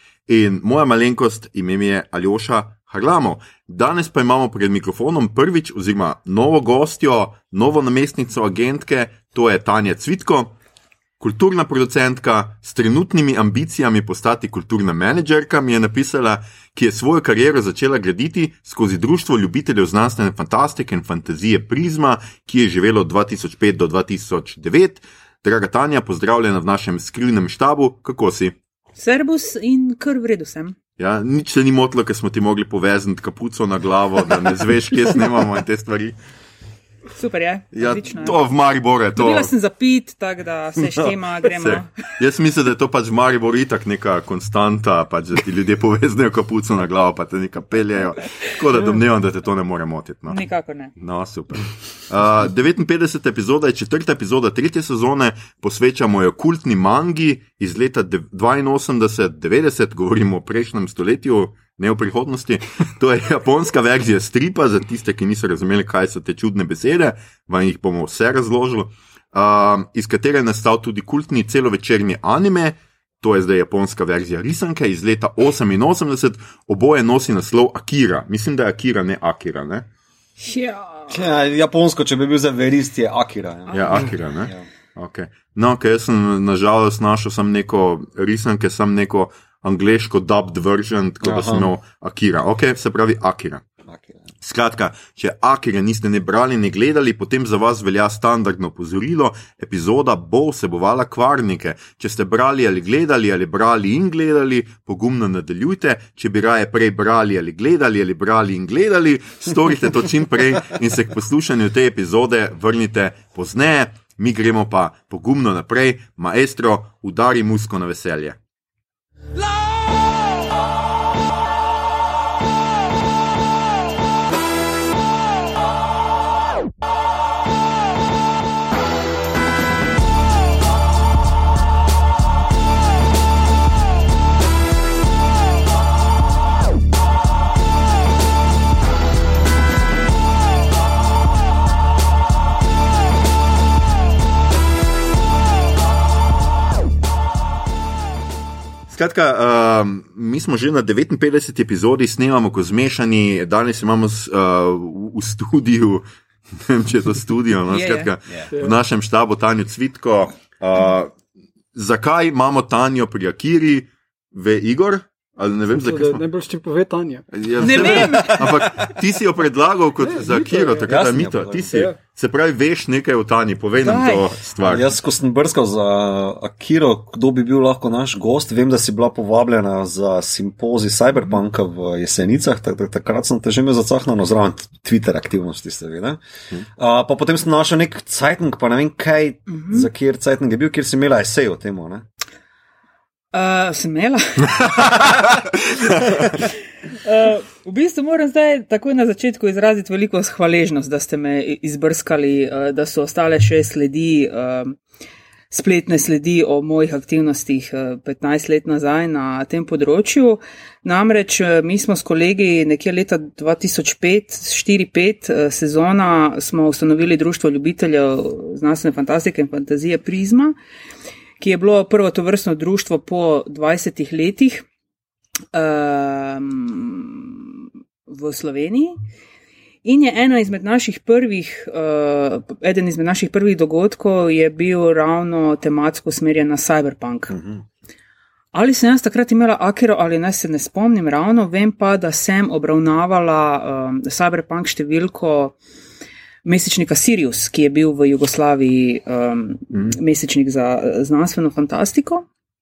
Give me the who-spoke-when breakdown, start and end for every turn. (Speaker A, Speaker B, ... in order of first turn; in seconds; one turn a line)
Speaker A: 0.3-10.5
Speaker A: 11.2-28.6
Speaker B: 29.0-30.8
Speaker A: 31.0-36.1
Speaker B: 37.1-38.5
Speaker A: 37.7-39.5
Speaker B: 39.1-41.9
Speaker A: 41.5-50.4
Speaker B: 50.3-50.9
Speaker A: 51.0-79.8
Speaker B: 80.4-81.2
Speaker C: 81.1-84.6
Speaker B: 83.7-84.0
Speaker A: 83.7-93.6
Speaker C: 91.2-91.7
Speaker C: 93.9-94.2
Speaker A: 94.4-118.4
Speaker A: 148.9-161.1
Speaker B: 157.7-158.1
Speaker A: 161.7-166.2
Speaker D: 165.7-167.3
Speaker A: 167.3-174.9
Speaker B: 167.6-168.5
Speaker C: 167.9-168.7
Speaker D: 170.0-171.0
Speaker C: 170.8-171.9
Speaker B: 173.8-174.3
Speaker C: 174.6-186.2
Speaker C: 186.8-192.0
Speaker B: 189.5-189.9
Speaker B: 193.3-204.8
Speaker B: 205.5-220.5
Speaker B: 221.4-224.6
Speaker B: 225.5-229.0
Speaker B: 229.8-237.3
Speaker C: 237.3-237.6
Speaker B: 238.5-245.6
Speaker B: 246.4-252.2